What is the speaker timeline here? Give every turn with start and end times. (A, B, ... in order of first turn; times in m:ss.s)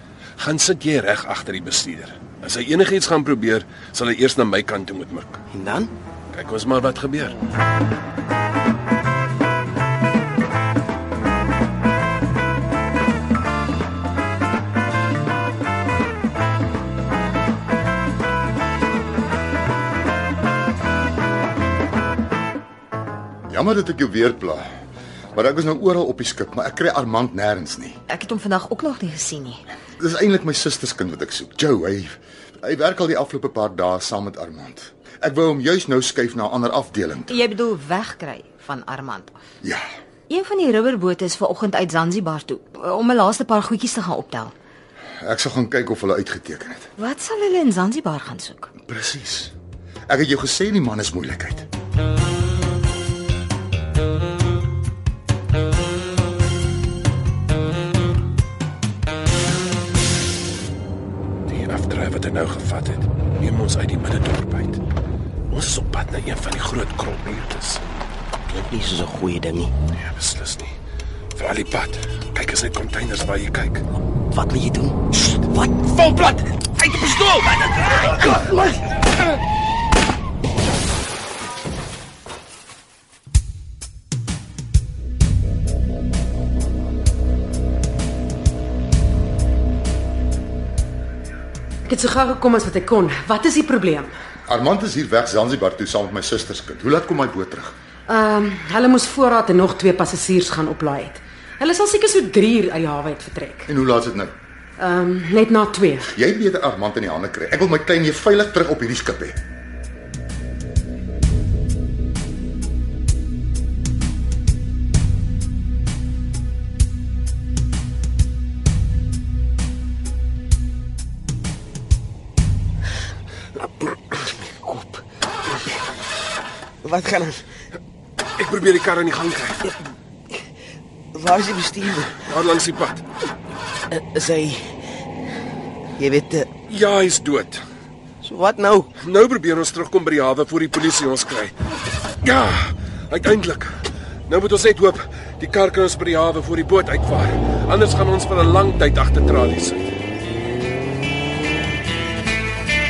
0:00.4-0:05.4 A
0:05.5-0:05.9 B
0:06.3-0:07.4 A
0:23.5-0:24.6 C
0:25.4-0:28.0 C
0:28.1-0:29.6 D
0:30.0-0:37.4 C
0:37.3-0:39.4 D
0:40.3-0:44.5 D
0:45.2-0:46.9 C
0:47.0-0:48.7 D
0:48.8-0:49.5 C
0:50.1-0:51.7 C
1:01.5-1:04.8 A
1:05.5-1:07.8 A
1:08.5-1:09.7 B
1:10.0-1:10.8 A
1:11.4-1:13.8 A
1:14.3-1:16.0 B
1:16.2-1:18.2 A
1:31.9-1:34.1 E
1:34.5-1:37.8 C
1:38.1-1:43.7 E
1:43.7-1:44.3 C
1:44.8-1:46.1 E
1:46.1-1:49.4 C
2:03.9-2:05.0 B
2:06.8-2:07.4 B
2:08.4-2:09.8 A
2:11.1-2:12.2 B
2:12.2-2:13.0 A
2:13.9-2:14.6 B
2:16.0-2:16.5 B
2:16.7-2:17.6 A
2:18.2-2:18.9 B
2:19.0-2:21.6 A
2:22.2-2:29.9 A